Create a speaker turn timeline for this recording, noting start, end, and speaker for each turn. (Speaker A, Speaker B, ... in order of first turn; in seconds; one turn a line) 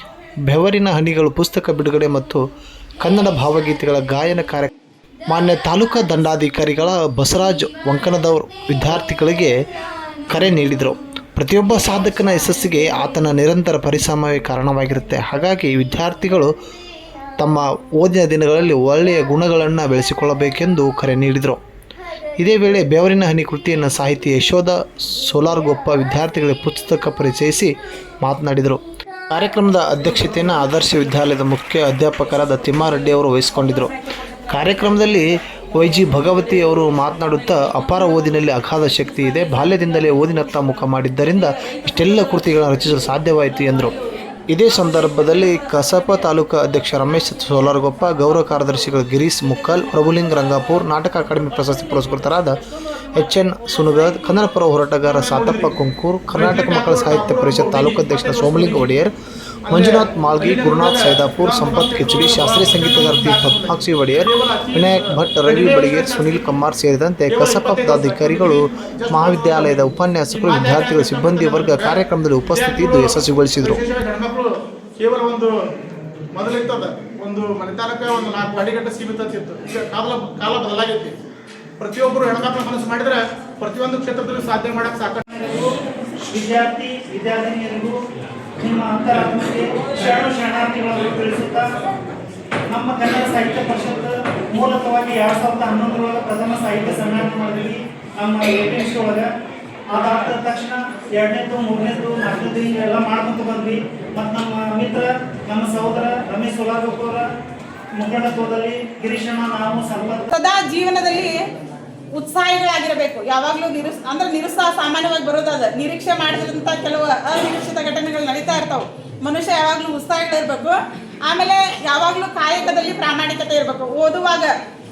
Speaker A: 0.5-2.4
Speaker A: 3.0-4.7
Speaker A: 5.3-9.6
Speaker A: 10.3-16.5
Speaker A: 17.4-21.6
Speaker A: 22.4-28.8
Speaker A: 29.3-33.9
Speaker A: 34.5-44.0
Speaker A: 44.5-52.6
Speaker A: 53.1-59.1
Speaker B: 55.1-55.7
Speaker B: 56.3-58.9
Speaker B: 59.7-66.6
Speaker A: 59.7-73.8
Speaker B: 67.3-75.5
Speaker B: 76.3-81.2
Speaker B: 81.8-85.2
Speaker C: 85.3-85.7
Speaker C: 86.3-88.0
Speaker C: 88.6-91.9
Speaker C: 92.7-99.3
Speaker C: 99.9-107.2
Speaker C: 108.0-110.3
Speaker D: 110.3-111.4
Speaker D: 112.2-120.8
Speaker D: 121.3-124.5